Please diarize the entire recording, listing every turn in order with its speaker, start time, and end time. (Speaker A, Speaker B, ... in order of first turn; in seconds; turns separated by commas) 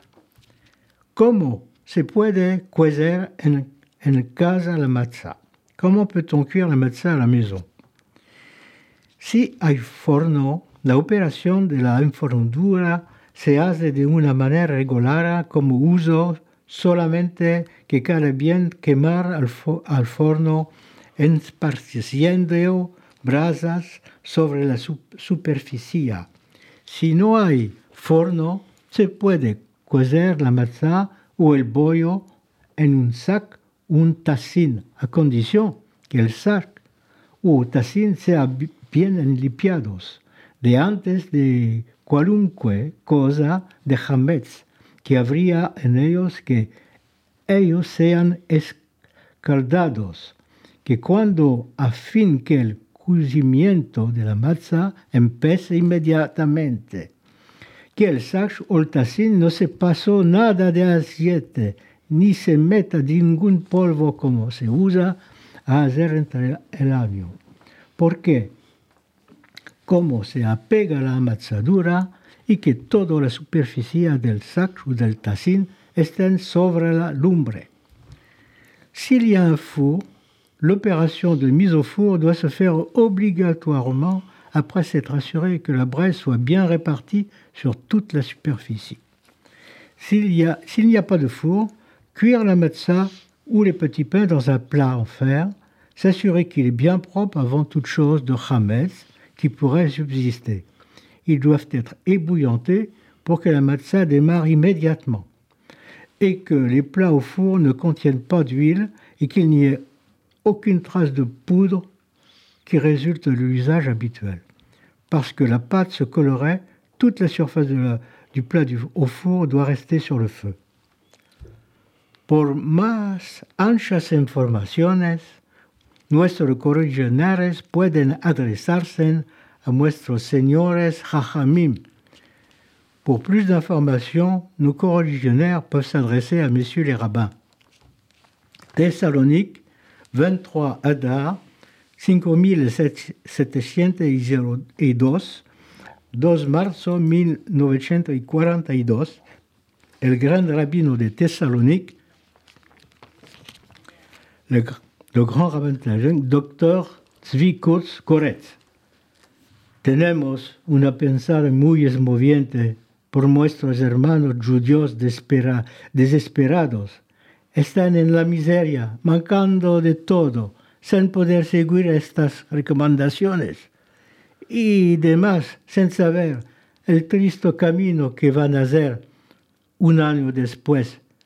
Speaker A: 1.1-7.7, Speaker A: 9.2-26.3, Speaker A: 26.9-36.8, Speaker A: 37.4-46.7, Speaker A: 47.5-48.8, Speaker A: 49.4-57.1, Speaker A: 57.9-67.4, Speaker A: 68.0-68.5, Speaker A: 69.8-77.7, Speaker A: 78.9-80.0, Speaker A: 80.6-89.0, Speaker A: 90.0-100.7, Speaker A: 101.2-105.3, Speaker A: 106.2-109.8, Speaker A: 110.4-111.9, Speaker A: 112.6-114.4, Speaker A: 115.1-120.6, Speaker A: 122.3-125.4, Speaker A: 126.1-131.8, Speaker A: 133.0-137.3, Speaker A: 138.7-141.4, Speaker A: 142.0-145.4, Speaker A: 146.1-149.2, Speaker A: 150.0-152.0, Speaker A: 154.5-158.6, Speaker A: 159.8-167.0, Speaker A: 167.5-173.7, Speaker A: 174.5-179.0, Speaker A: 179.8-181.0